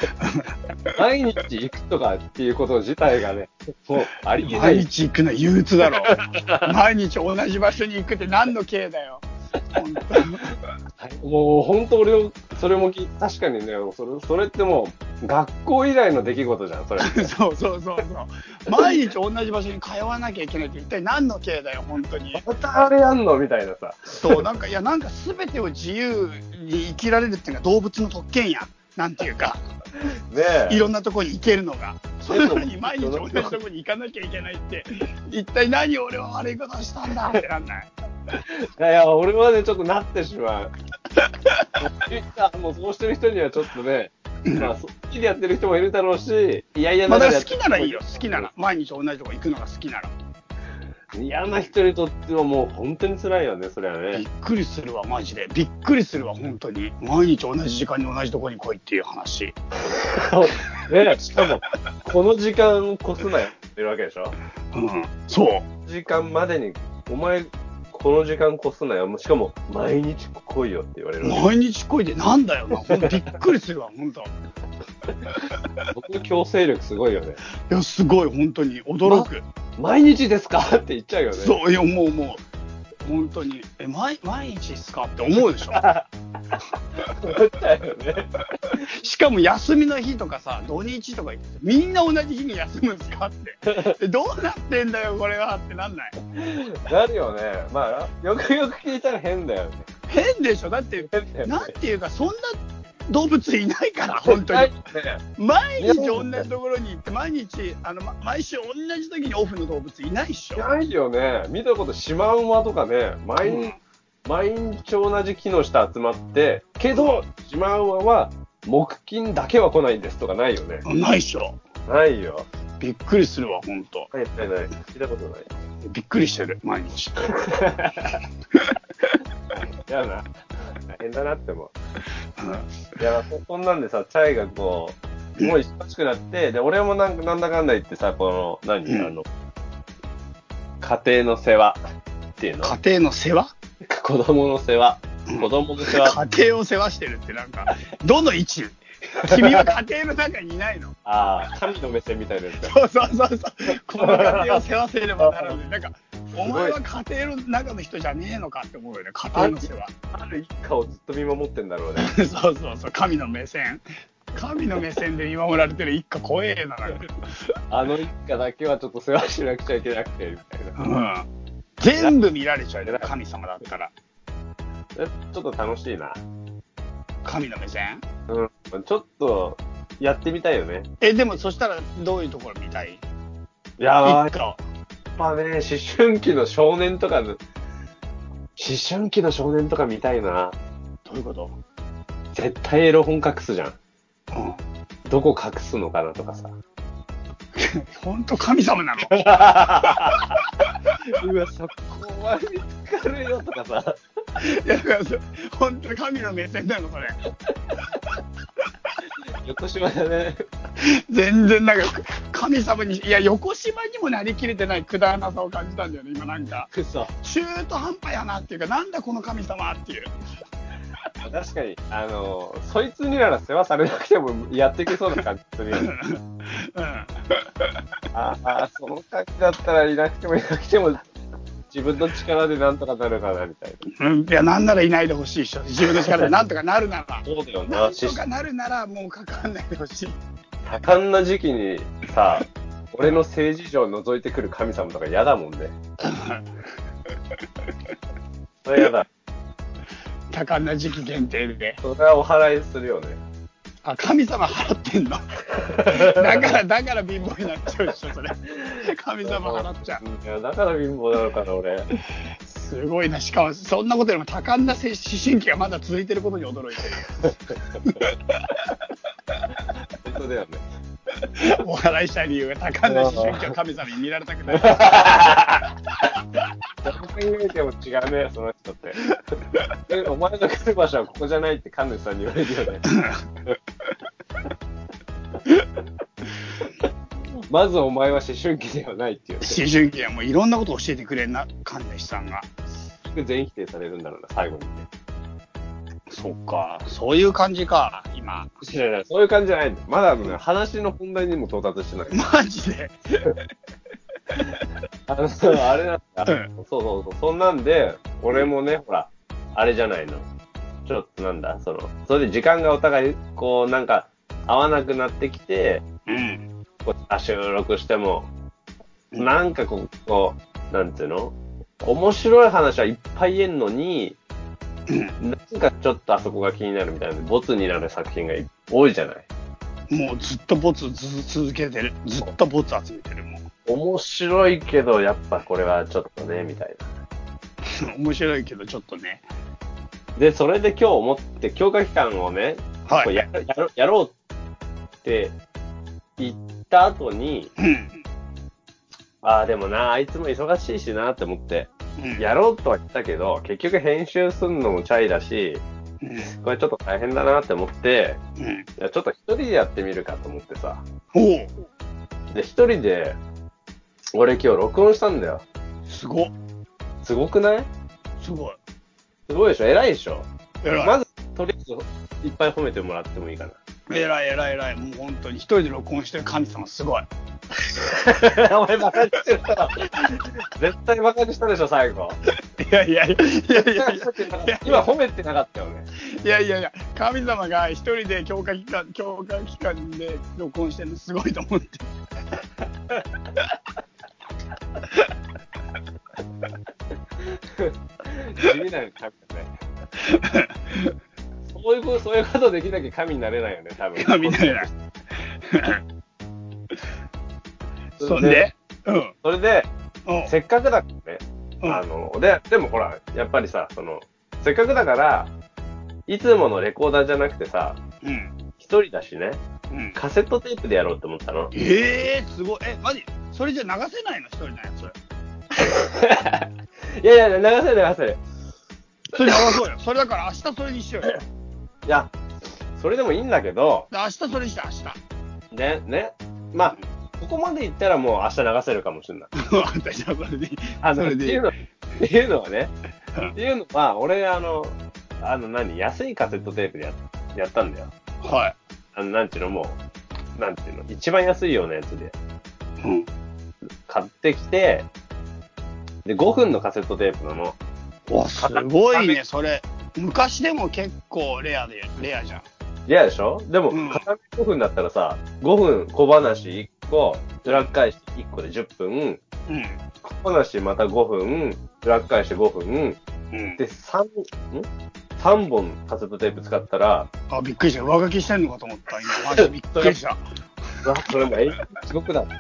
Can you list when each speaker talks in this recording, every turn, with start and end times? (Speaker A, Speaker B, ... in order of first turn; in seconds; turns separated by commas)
Speaker A: 0.2-1.0, Speaker B: 0.9-4.9, Speaker A: 4.4-10.5, Speaker B: 5.8-6.7, Speaker B: 11.0-17.3, Speaker A: 17.0-22.4, Speaker B: 22.3-24.4, Speaker A: 24.1-29.6, Speaker B: 30.1-30.9, Speaker A: 30.7-37.9, Speaker B: 32.3-33.6, Speaker B: 38.4-40.7, Speaker A: 41.2-41.7, Speaker B: 41.8-48.5, Speaker A: 47.0-50.1, Speaker B: 51.1-54.2, Speaker A: 54.1-59.5, Speaker B: 59.9-64.4, Speaker A: 64.7-65.7, Speaker B: 65.8-71.5, Speaker A: 71.2-74.3, Speaker B: 75.9-77.4, Speaker A: 77.7-79.4, Speaker B: 79.0-81.6, Speaker A: 81.3-82.4, Speaker A: 83.0-85.8, Speaker B: 85.7-86.1, Speaker B: 87.0-88.3, Speaker A: 88.8-96.1, Speaker B: 96.3-99.8, Speaker A: 100.1-104.7, Speaker B: 101.0-101.7, Speaker B: 104.1-105.2, Speaker A: 105.3-110.7, Speaker B: 105.8-106.4, Speaker B: 110.5-120.8, Speaker A: 113.4-113.8, Speaker A: 120.8-121.6, Speaker B: 121.8-122.5, Speaker A: 122.8-124.1, Speaker B: 124.1-125.5, Speaker A: 125.8-127.4, Speaker B: 127.3-128.2, Speaker B: 129.8-131.7, Speaker A: 132.4-132.7, Speaker B: 133.0-139.3, Speaker A: 138.8-139.1, Speaker B: 140.8-141.8, Speaker B: 142.4-142.7, Speaker A: 142.6-143.5, Speaker B: 143.8-146.2, Speaker A: 145.3-150.9, Speaker B: 149.3-149.7, Speaker B: 151.0-152.7, Speaker A: 152.6-159.9, Speaker B: 153.9-154.7, Speaker B: 155.2-155.6, Speaker B: 156.4-156.8, Speaker B: 159.3-159.6, Speaker B: 160.1-162.1, Speaker A: 162.0-167.2, Speaker B: 167.7-170.8, Speaker A: 170.8-173.9, Speaker B: 174.9-176.2, Speaker A: 177.2-178.0, Speaker B: 178.3-180.9, Speaker A: 181.0-183.0, Speaker B: 183.8-184.3, Speaker A: 184.0-184.6, Speaker B: 185.2-187.4, Speaker B: 188.6-190.6, Speaker A: 191.1-191.6, Speaker B: 192.3-193.8, Speaker A: 194.3-194.6, Speaker B: 195.1-196.5, Speaker A: 197.6-199.2, Speaker B: 199.0-200.4, Speaker A: 200.0-200.6, Speaker B: 201.0-204.0, Speaker A: 204.4-207.2, Speaker B: 209.3-210.4, Speaker A: 210.8-220.1, Speaker B: 216.7-217.1, Speaker B: 221.2-225.9, Speaker A: 225.7-227.6, Speaker B: 228.1-231.1, Speaker B: 231.7-233.8, Speaker A: 233.9-240.2, Speaker B: 237.2-238.2, Speaker B: 240.7-245.7, Speaker A: 246.0-246.5, Speaker B: 248.6-249.1, Speaker A: 250.3-251.8, Speaker B: 251.8-253.2, Speaker A: 253.8-260.0, Speaker B: 255.8-256.5, Speaker B: 259.2-261.9, Speaker A: 262.4-268.6, Speaker B: 267.3-267.5, Speaker B: 269.9-270.6, Speaker A: 271.2-275.4, Speaker B: 272.8-273.5, Speaker B: 274.5-275.6, Speaker B: 276.8-279.0, Speaker B: 279.9-282.9, Speaker A: 282.9-283.3, Speaker B: 287.5-289.6, Speaker A: 289.4-292.5, Speaker B: 293.0-294.9, Speaker A: 296.1-298.5, Speaker B: 298.6-302.2, Speaker A: 302.1-303.1, Speaker B: 305.1-310.2, Speaker B: 310.8-315.8, Speaker A: 316.1-316.5, Speaker B: 316.8-318.3, Speaker B: 319.1-324.2, Speaker A: 324.9-325.1, Speaker B: 325.2-329.3, Speaker A: 329.9-333.4, Speaker B: 333.6-336.9, Speaker A: 337.7-339.2, Speaker B: 340.1-344.1, Speaker A: 342.9-343.2, Speaker B: 345.0-345.4, Speaker B: 346.2-347.5, Speaker A: 347.6-348.0, Speaker B: 349.2-355.6, Speaker A: 352.0-352.2, Speaker A: 356.0-356.3, Speaker B: 356.2-358.2, Speaker A: 358.4-358.7, Speaker B: 358.8-360.8, Speaker A: 361.1-361.5, Speaker B: 362.3-363.2, Speaker B: 364.1-365.4, Speaker A: 365.9-366.3, Speaker B: 367.0-367.7, Speaker A: 368.2-368.6, Speaker B: 369.3-370.3, Speaker A: 370.6-371.0, Speaker B: 370.8-373.6, Speaker A: 373.9-377.1, Speaker B: 377.7-382.2, Speaker A: 382.5-384.9, Speaker B: 383.5-385.9, Speaker A: 386.0-391.9, Speaker B: 397.3-399.5, Speaker A: 400.0-400.9, Speaker B: 401.5-404.7, Speaker A: 403.9-404.7, Speaker A: 405.5-405.8, Speaker B: 408.0-408.5, Speaker A: 408.0-409.1, Speaker B: 409.2-409.7, Speaker A: 410.1-410.3, Speaker B: 410.2-415.3, Speaker B: 416.1-417.8, Speaker A: 418.0-418.3, Speaker B: 418.6-419.4, Speaker A: 419.7-420.0, Speaker B: 419.9-421.5, Speaker A: 421.5-424.9, Speaker B: 425.6-428.2, Speaker A: 429.1-431.2, Speaker B: 429.2-429.6, Speaker B: 431.9-432.1, Speaker B: 432.8-433.9, Speaker A: 433.9-435.0, Speaker B: 435.5-439.3, Speaker A: 439.4-441.5, Speaker B: 440.8-442.7, Speaker B: 443.3-447.9, Speaker A: 448.2-448.6, Speaker B: 448.9-449.8, Speaker B: 450.4-452.1, Speaker A: 452.8-453.1, Speaker B: 453.9-454.9, Speaker B: 456.0-457.6, Speaker A: 458.1-462.4, Speaker B: 458.4-459.2, Speaker B: 462.9-469.2, Speaker A: 463.7-464.0, Speaker A: 469.5-469.8, Speaker B: 470.0-473.0, Speaker A: 473.3-473.6, Speaker B: 473.6-477.1, Speaker A: 477.3-480.9, Speaker B: 479.4-480.0, Speaker B: 480.8-482.3